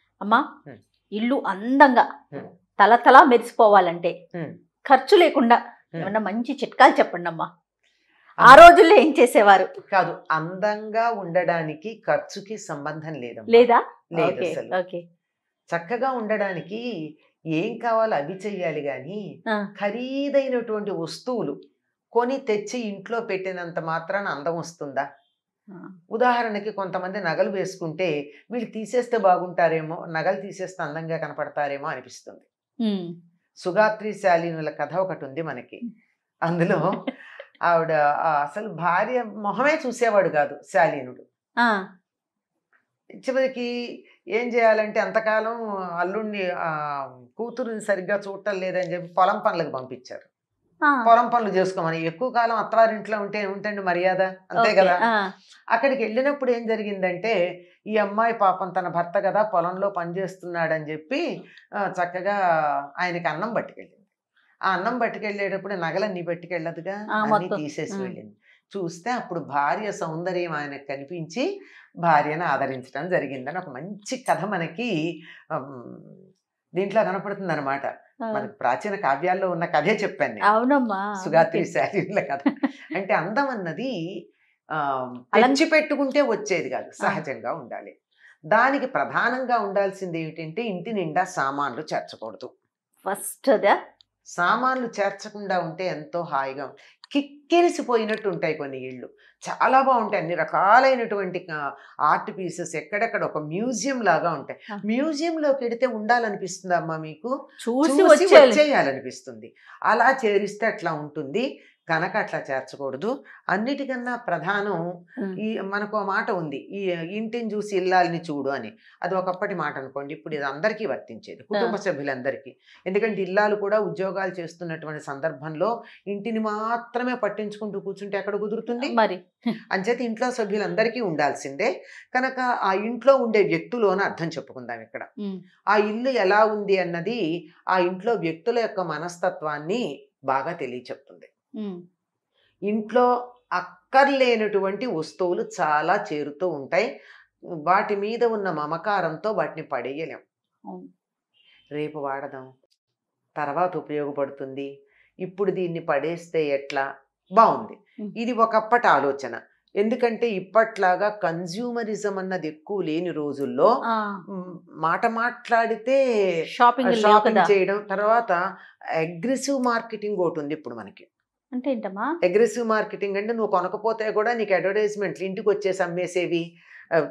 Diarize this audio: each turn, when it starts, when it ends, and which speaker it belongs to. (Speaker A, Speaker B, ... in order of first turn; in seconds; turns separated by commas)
Speaker A: 1.2-2.1, Speaker A: 2.8-4.1, Speaker A: 4.9-7.5, Speaker A: 8.4-9.7, Speaker B: 9.9-14.8, Speaker A: 13.5-15.0, Speaker B: 15.7-16.8, Speaker B: 17.6-19.2, Speaker B: 19.8-21.6, Speaker B: 22.1-25.1, Speaker B: 26.1-32.5, Speaker A: 32.8-33.1, Speaker B: 33.6-35.8, Speaker B: 36.5-37.1, Speaker B: 37.7-41.2, Speaker B: 43.2-43.7, Speaker B: 44.4-50.3, Speaker A: 50.9-51.1, Speaker B: 51.1-55.0, Speaker A: 54.6-55.3, Speaker B: 55.7-57.4, Speaker B: 58.0-61.2, Speaker B: 61.9-62.4, Speaker B: 63.0-64.0, Speaker B: 64.7-71.5, Speaker A: 67.2-68.1, Speaker B: 72.1-74.9, Speaker B: 75.6-76.2, Speaker B: 76.8-80.4, Speaker A: 80.5-81.7, Speaker B: 81.2-83.9, Speaker B: 85.3-87.9, Speaker A: 85.3-85.6, Speaker B: 88.5-92.5, Speaker A: 93.1-93.8, Speaker B: 94.4-101.5, Speaker B: 102.1-107.3, Speaker A: 107.6-108.6, Speaker B: 107.8-114.8, Speaker B: 115.5-129.0, Speaker A: 128.8-129.6, Speaker B: 129.7-135.1, Speaker B: 135.7-137.2, Speaker B: 137.8-141.3, Speaker B: 142.7-143.1, Speaker B: 143.6-146.9, Speaker B: 147.7-150.2, Speaker B: 151.8-152.5, Speaker B: 153.4-154.7, Speaker B: 155.2-156.8, Speaker B: 157.4-163.7, Speaker A: 163.9-164.2, Speaker B: 164.8-166.0, Speaker A: 166.6-167.5, Speaker B: 166.8-168.4, Speaker B: 169.1-171.1, Speaker A: 171.6-172.1, Speaker B: 172.2-176.4